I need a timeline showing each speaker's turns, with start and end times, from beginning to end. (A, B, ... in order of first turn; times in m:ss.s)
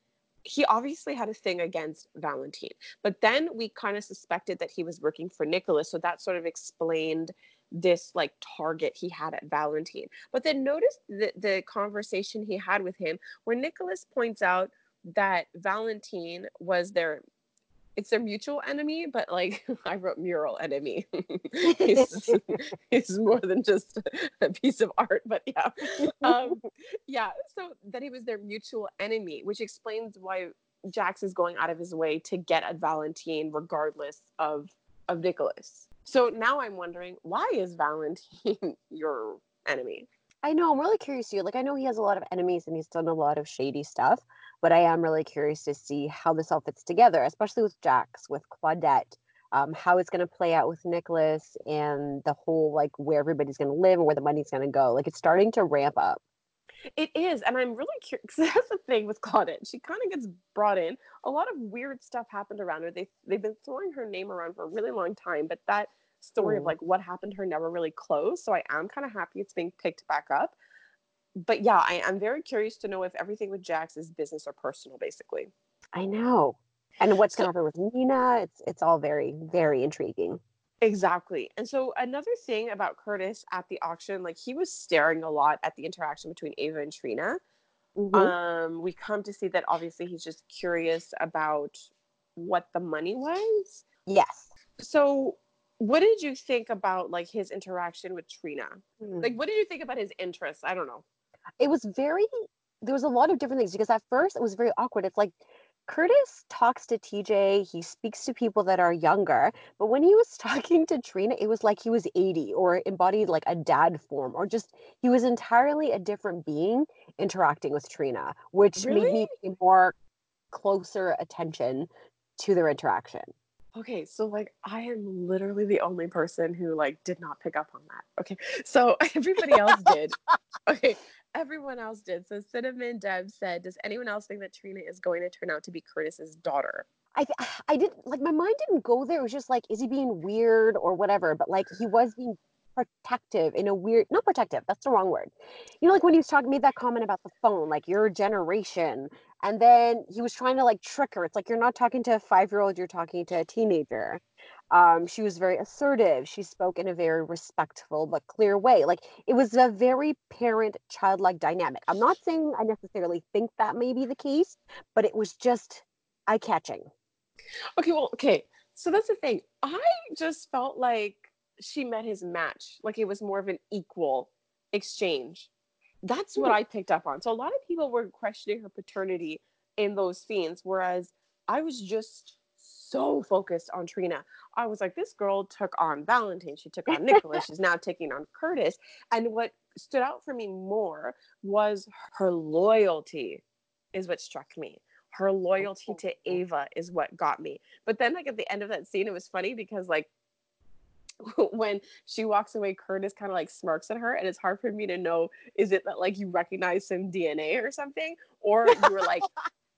0:00.4-0:17.2 A
0:18.0-0:40.1 A
0:21.6-0:22.4 B
0:26.0-0:26.6 B
0:40.4-0:56.2 B
0:57.0-1:10.6 A
1:06.4-1:06.7 B
1:11.4-1:15.5 A
1:15.9-1:20.4 B
1:17.2-1:17.5 A
1:20.8-1:27.4 A
1:28.0-1:28.3 B
1:28.1-1:33.8 A
1:34.1-1:34.5 B
1:34.8-1:41.0 A
1:39.0-1:39.3 B
1:41.6-1:42.3 B
1:42.8-1:59.9 B
1:58.8-1:59.3 A
2:00.5-2:03.3 B
2:03.7-2:16.9 A
2:17.1-2:46.9 B
2:47.8-2:55.5 A
2:56.0-3:13.4 A
3:13.9-3:20.1 A
3:15.6-3:16.4 B
3:21.2-3:29.3 A
3:28.7-3:29.4 B